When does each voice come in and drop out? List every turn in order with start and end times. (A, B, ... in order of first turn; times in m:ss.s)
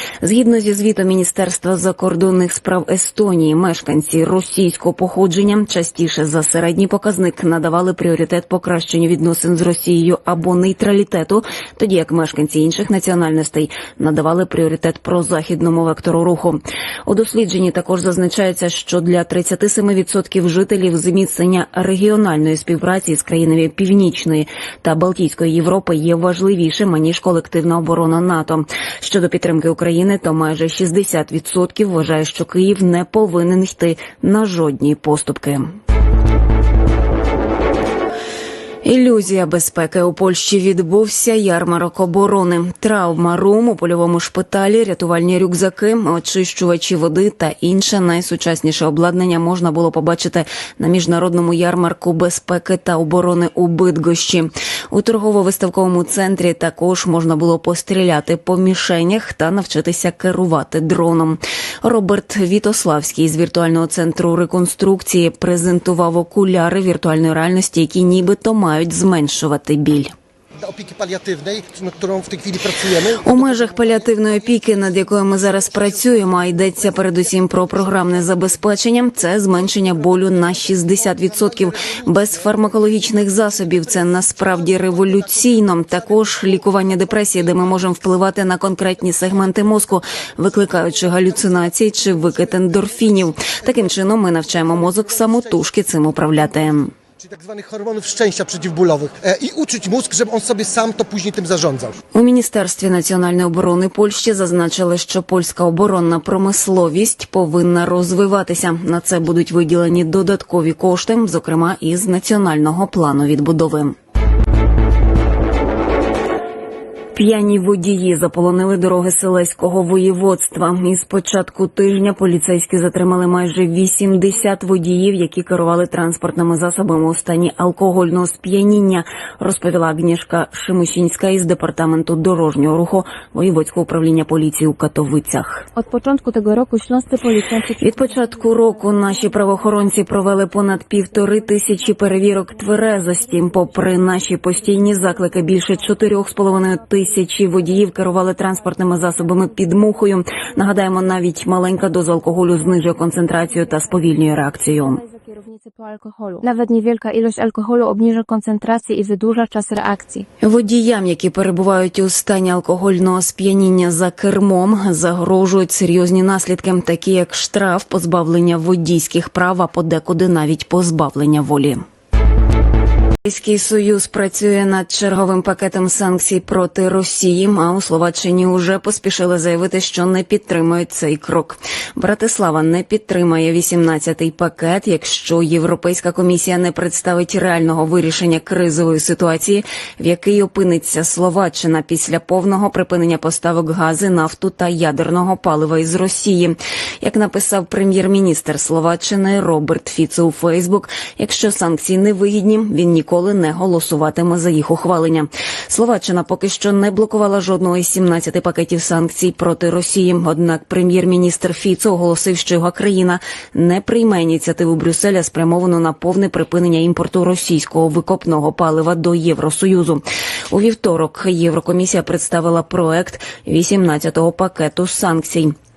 0:00.2-0:35.7 A
0:38.8-1:10.1 A
1:10.6-1:18.7 B
1:13.2-1:36.9 A
1:19.3-1:28.0 B
1:30.1-1:35.7 B
1:37.2-1:42.0 B
1:42.1-1:54.0 A
1:57.1-2:15.7 A
2:15.7-2:31.0 C
2:17.8-2:35.0 A
2:32.3-2:40.2 C
2:40.4-2:51.8 A
2:53.2-3:45.5 A